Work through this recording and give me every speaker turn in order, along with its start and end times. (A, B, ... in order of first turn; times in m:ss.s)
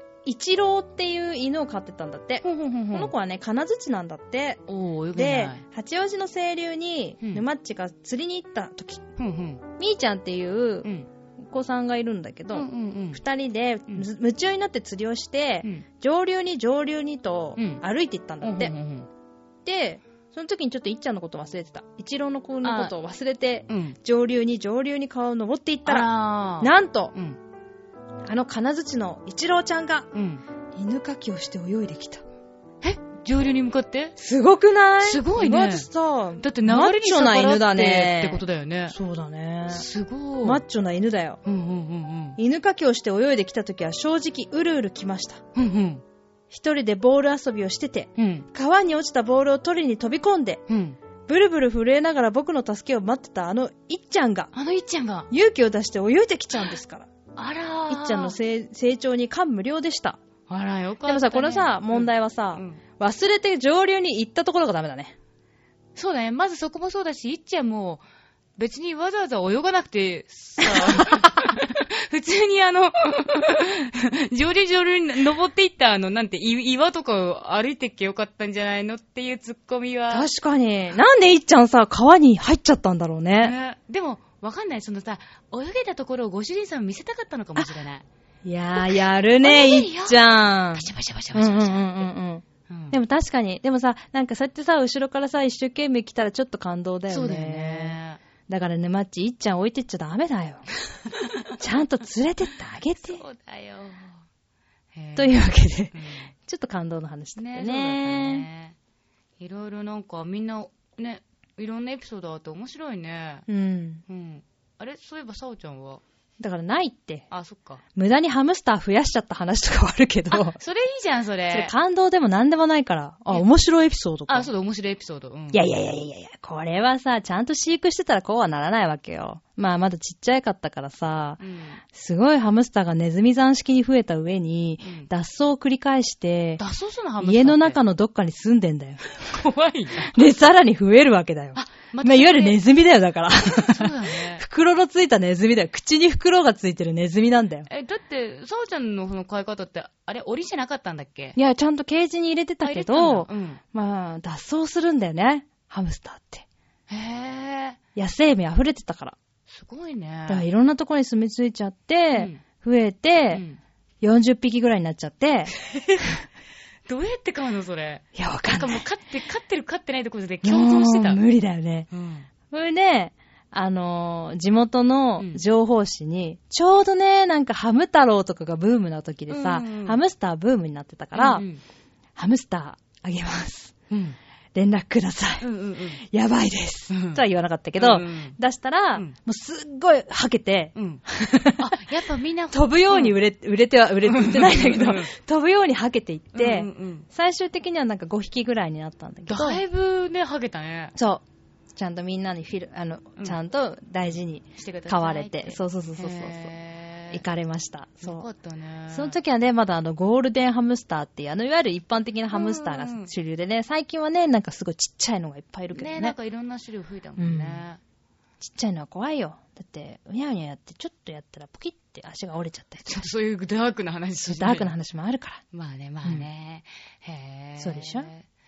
0:00.2-0:04.6 A
0:02.4-0:03.1 B
0:04.7-0:05.6 B
0:05.1-0:09.0 A
0:09.2-0:09.6 B
0:09.8-0:10.9 A
0:11.4-0:18.7 A
0:12.5-0:13.2 B
0:17.6-0:17.8 B
0:18.4-0:19.1 B
0:19.6-0:27.1 A
0:22.6-0:22.9 B
0:23.7-0:24.0 B
0:25.8-0:27.4 B
0:28.2-0:30.1 A
0:30.1-0:30.4 B
0:30.8-0:32.2 A
0:32.8-0:34.2 B
0:34.2-0:39.8 A
0:35.0-0:35.9 B
0:36.4-0:38.9 B
0:39.7-0:40.6 B
0:40.4-0:41.4 A
0:41.4-0:42.4 B
0:42.4-0:45.4 A
0:45.6-0:46.0 B
0:46.5-0:50.6 A
0:48.2-0:48.5 B
0:50.7-0:51.0 B
0:51.3-0:54.5 A
0:54.5-0:55.3 B
0:55.3-0:57.1 A
0:57.4-0:58.4 B
0:57.9-1:00.2 A
1:00.5-1:02.8 B
1:01.1-1:05.1 A
1:06.0-1:08.0 B
1:08.6-1:20.3 B
1:10.6-1:11.3 A
1:20.1-1:23.6 A
1:23.4-1:28.1 B
1:28.4-1:40.6 A
1:28.8-1:32.1 B
1:32.7-1:33.0 B
1:37.1-1:38.2 B
1:41.1-1:41.5 B
1:41.6-1:43.2 A
1:43.0-1:44.2 B
1:44.9-1:45.4 B
1:45.2-1:48.4 A
1:45.9-1:46.3 B
1:47.4-1:48.8 B
1:49.4-1:53.4 B
1:53.5-1:54.0 A
1:54.1-1:56.0 B
1:56.4-1:57.3 A
1:57.3-1:57.8 B
1:57.9-2:00.6 A
2:00.3-2:01.7 B
2:01.5-2:04.5 A
2:04.3-2:05.6 B
2:05.5-2:11.4 A
2:11.4-2:11.8 B
2:11.9-2:16.6 A
2:14.8-2:15.1 B
2:16.6-2:17.8 B
2:17.2-2:19.0 A
2:19.1-2:20.2 B
2:20.1-2:27.7 A
2:21.6-2:22.6 B
2:23.5-2:24.4 B
2:27.7-2:31.4 B
2:31.4-2:36.4 A
2:32.6-2:33.6 B
2:36.9-2:37.8 B
2:38.0-2:39.2 A
2:39.5-2:40.4 B
2:40.3-2:43.4 A
2:42.1-2:42.4 B
2:43.3-2:43.6 B
2:44.0-2:45.5 A
2:45.6-2:46.2 B
2:46.9-2:51.2 B
2:48.1-2:48.8 A
2:50.4-2:51.9 A
2:51.9-2:52.3 B
2:52.5-3:01.4 A
2:59.3-3:00.0 B
3:01.1-3:01.6 B
3:02.2-3:03.7 A
3:03.9-3:04.2 B
3:04.6-3:05.4 A
3:05.4-3:06.0 B
3:06.0-3:11.7 A
3:06.9-3:07.2 B
3:07.8-3:08.4 B
3:10.8-3:11.0 B
3:11.6-3:13.2 B
3:12.5-3:19.6 A
3:14.0-3:15.1 B
3:16.3-3:17.1 B
3:19.3-3:21.0 B
3:21.0-3:21.2 A
3:21.8-3:26.5 A
3:24.6-3:27.2 B
3:27.1-3:28.3 A
3:28.0-3:29.2 B
3:28.9-3:36.1 A
3:32.3-3:33.1 B
3:35.7-3:37.8 B
3:37.2-3:37.6 A
3:38.4-3:43.1 A
3:42.8-3:44.7 B
3:44.2-3:45.4 A
3:45.5-3:48.2 B
3:47.6-3:48.1 A